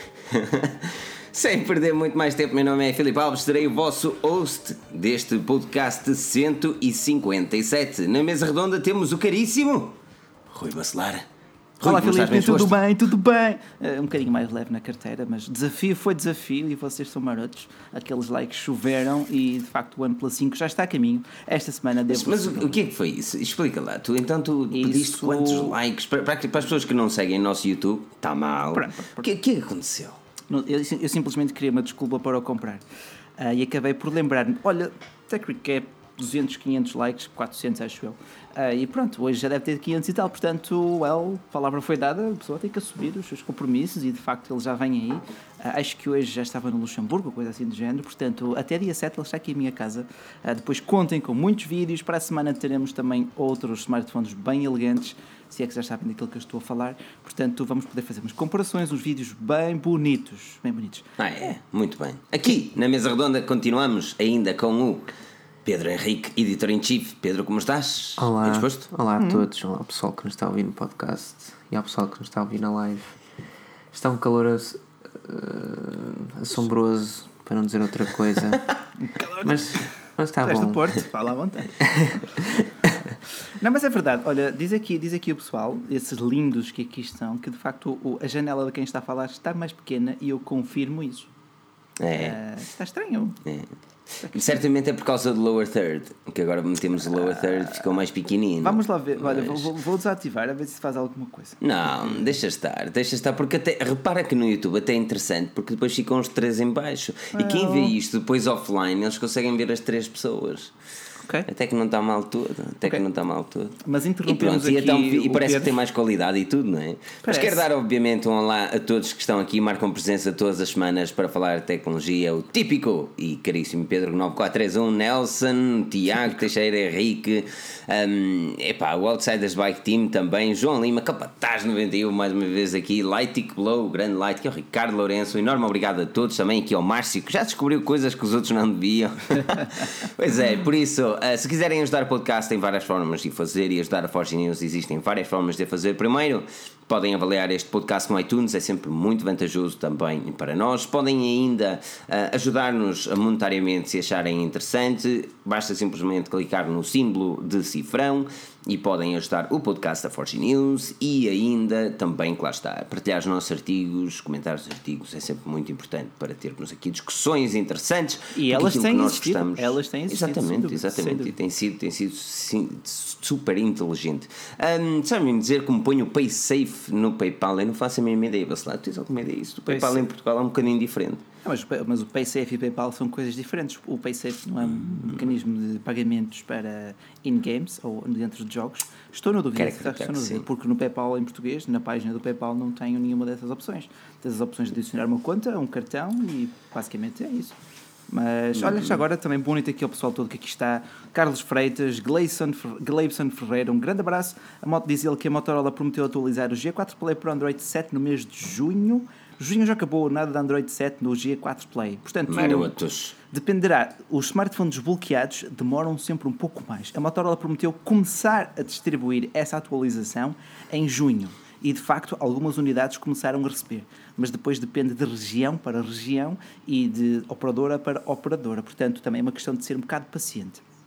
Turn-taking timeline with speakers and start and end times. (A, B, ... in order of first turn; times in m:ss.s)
0:00.3-0:10.0 A
0:10.5-0:11.3 A
0:11.8-0:12.7 A
0:11.8-0:22.8 B
0:22.1-0:30.2 A
0:24.7-0:25.8 B
0:28.7-0:29.3 B
0:30.5-0:32.8 B
0:33.4-1:01.1 B
1:01.2-1:05.1 A
1:05.6-1:08.9 A
1:08.2-1:13.2 C
1:09.2-1:09.4 B
1:13.9-1:18.7 C
1:19.0-1:19.8 B
1:19.4-1:20.9 C
1:20.4-1:21.9 B
1:21.8-1:22.6 C
1:23.6-1:31.3 B
1:32.0-1:32.4 A
1:32.1-1:33.4 B
1:34.2-1:34.6 B
1:34.3-1:39.7 A
1:37.1-1:37.8 B
1:38.6-1:42.3 B
1:41.6-1:50.7 A
1:47.3-1:47.9 B
1:51.2-1:51.5 B
1:51.5-3:01.2 A
1:53.8-1:55.7 B
1:57.2-1:57.6 B
2:48.3-2:51.3 B
2:59.7-3:00.1 B
3:01.4-3:17.6 B
3:04.7-3:05.3 A
3:09.6-3:10.4 A
3:18.1-3:32.8 B
3:18.6-3:19.0 A
3:32.3-3:33.2 A
3:33.3-3:50.6 B